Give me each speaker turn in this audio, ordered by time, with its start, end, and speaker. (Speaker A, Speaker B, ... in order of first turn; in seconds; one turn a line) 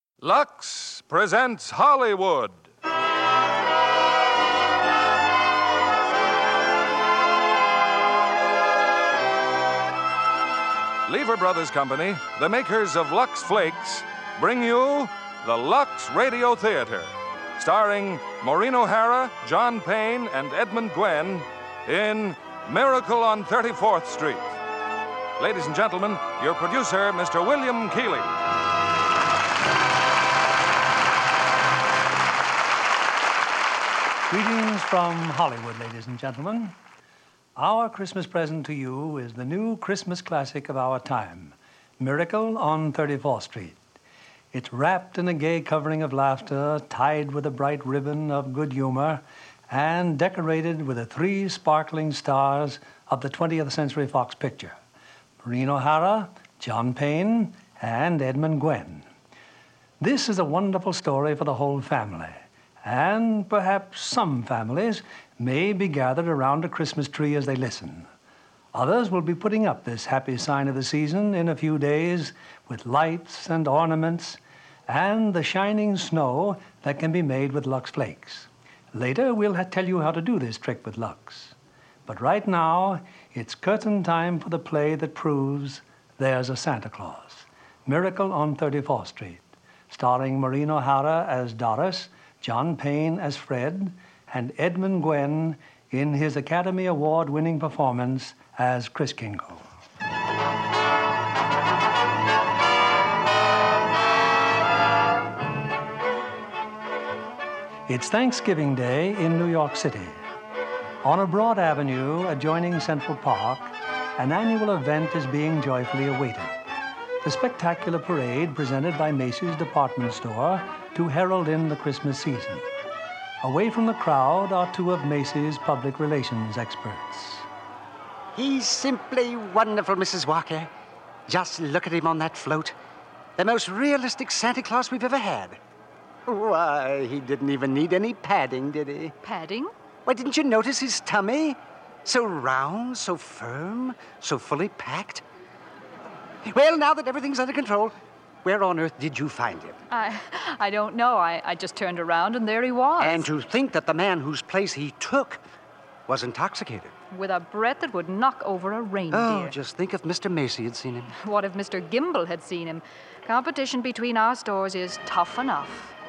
Speaker A: 0.2-2.7
Speaker A: 11.1-24.6
Speaker A: 25.4-28.3
Speaker B: 34.3-36.8
Speaker B: 37.6-43.8
Speaker B: 44.5-54.8
Speaker B: 55.4-59.1
Speaker B: 60.0-68.1
Speaker B: 68.7-81.5
Speaker B: 82.1-99.7
Speaker B: 107.9-110.2
Speaker B: 111.0-116.5
Speaker B: 117.2-122.6
Speaker B: 123.4-127.5
Speaker C: 128.3-130.7
Speaker C: 131.3-132.8
Speaker C: 133.4-135.6
Speaker C: 136.3-139.2
Speaker D: 139.2-139.7
Speaker C: 140.1-145.2
Speaker C: 146.4-149.8
Speaker D: 149.9-153.3
Speaker C: 153.0-155.4
Speaker C: 156.1-156.9
Speaker D: 157.1-159.6
Speaker C: 159.1-161.1
Speaker D: 161.2-165.9